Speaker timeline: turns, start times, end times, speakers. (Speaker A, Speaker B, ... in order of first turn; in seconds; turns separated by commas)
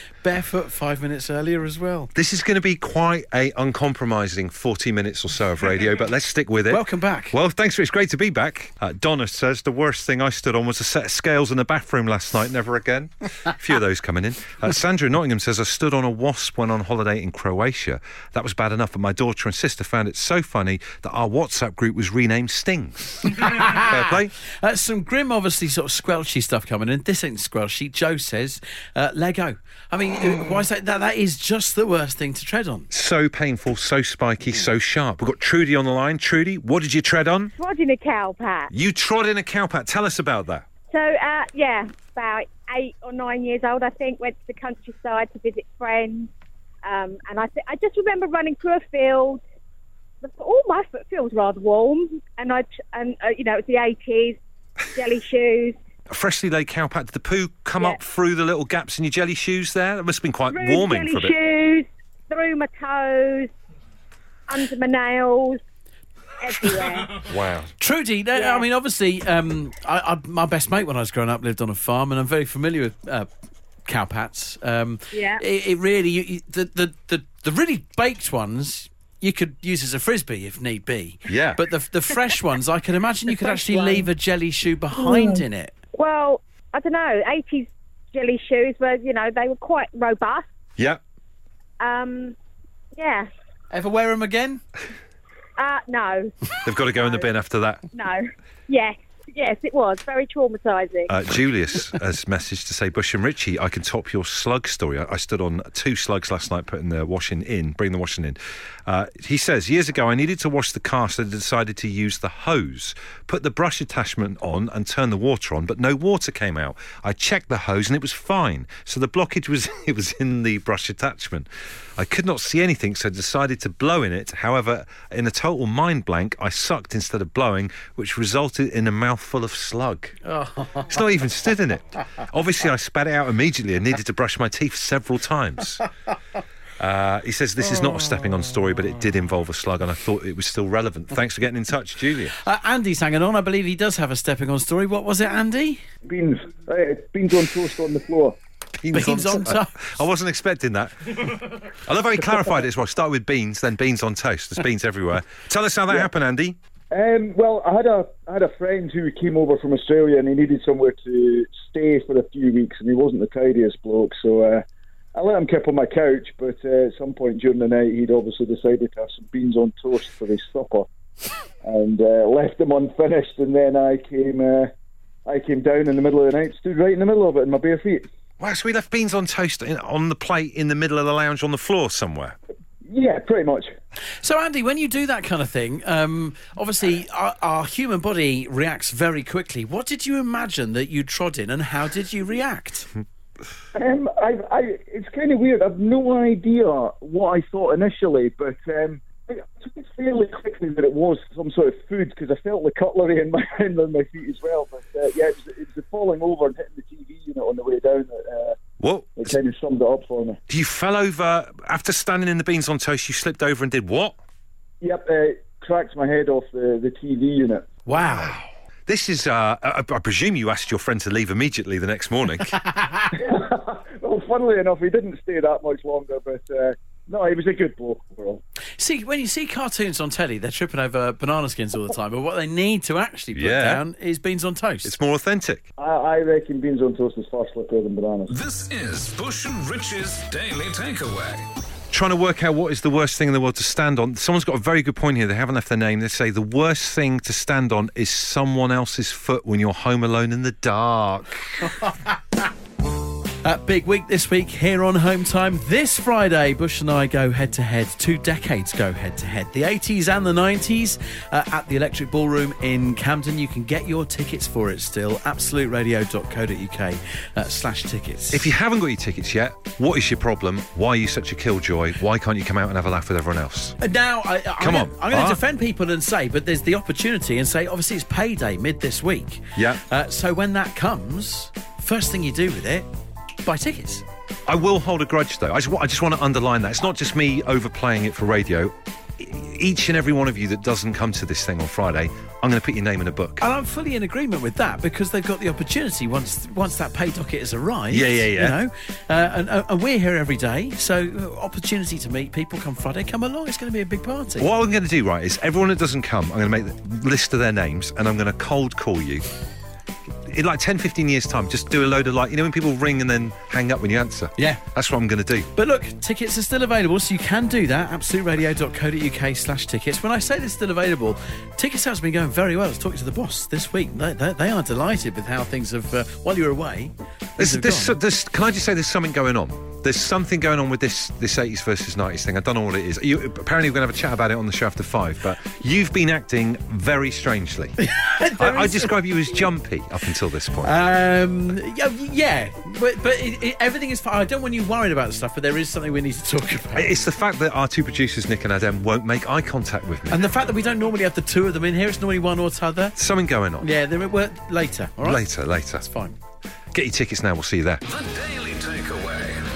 Speaker A: 0.2-2.1, Speaker B: 2.1-24.3, Speaker A: 6.7-7.3, Speaker A: 23.4-24.0, Speaker A: 24.6-32.9, Speaker B: 32.9-37.5, Speaker C: 37.6-38.7, Speaker B: 38.7-40.7, Speaker C: 40.9-46.3, Speaker C: 46.8-49.4, Speaker C: 50.2-54.4, Speaker C: 54.9-55.8, Speaker B: 56.1-61.4, Speaker C: 60.5-63.5, Speaker C: 64.5-65.6, Speaker C: 66.4-67.2, Speaker B: 67.2-67.7, Speaker A: 67.8-73.3, Speaker C: 68.3-68.7, Speaker A: 73.9-85.7, Speaker C: 75.1-75.4, Speaker B: 81.3-81.6, Speaker C: 83.5-84.0, Speaker C: 85.0-85.3, Speaker C: 85.9-90.5, Speaker C: 91.8-92.4, Speaker C: 93.0-93.3, Speaker A: 93.7-94.6, Speaker C: 95.6-97.3, Speaker B: 96.6-97.8, Speaker C: 97.9-101.1, Speaker B: 101.1-130.2, Speaker A: 130.2-131.0, Speaker B: 130.9-135.8, Speaker B: 136.8-142.4, Speaker A: 142.4-145.8, Speaker D: 146.1-148.4, Speaker B: 148.8-156.6, Speaker A: 148.9-150.0, Speaker D: 156.9-164.6, Speaker D: 165.2-170.9, Speaker D: 171.6-174.7, Speaker D: 175.3-178.1, Speaker B: 178.4-182.4, Speaker D: 182.9-183.7, Speaker A: 184.2-192.9, Speaker D: 193.7-208.6, Speaker B: 208.8-209.4, Speaker D: 209.2-210.4, Speaker B: 210.5-214.2, Speaker D: 214.8-217.7, Speaker A: 217.9-218.4, Speaker B: 218.9-222.6, Speaker A: 222.7-223.1, Speaker D: 223.1-228.4, Speaker A: 228.8-234.9, Speaker B: 233.3-233.8, Speaker B: 234.8-235.6, Speaker D: 235.8-238.3, Speaker E: 238.3-241.5, Speaker B: 241.9-251.7, Speaker A: 253.4-268.5, Speaker B: 268.3-273.8, Speaker A: 273.8-282.9, Speaker B: 274.6-275.4, Speaker B: 279.6-279.8, Speaker A: 283.4-284.0, Speaker B: 284.5-293.4, Speaker A: 293.4-304.5, Speaker B: 297.9-298.6, Speaker B: 304.4-309.2, Speaker B: 310.3-315.5, Speaker A: 314.4-314.6, Speaker A: 315.6-328.0, Speaker B: 327.4-337.8, Speaker A: 337.8-339.0, Speaker B: 338.4-340.7, Speaker A: 340.6-347.0, Speaker B: 346.7-350.2, Speaker A: 350.1-353.0, Speaker B: 353.0-353.7, Speaker A: 353.6-356.2, Speaker B: 355.0-355.9, Speaker B: 356.7-357.8, Speaker E: 357.9-359.5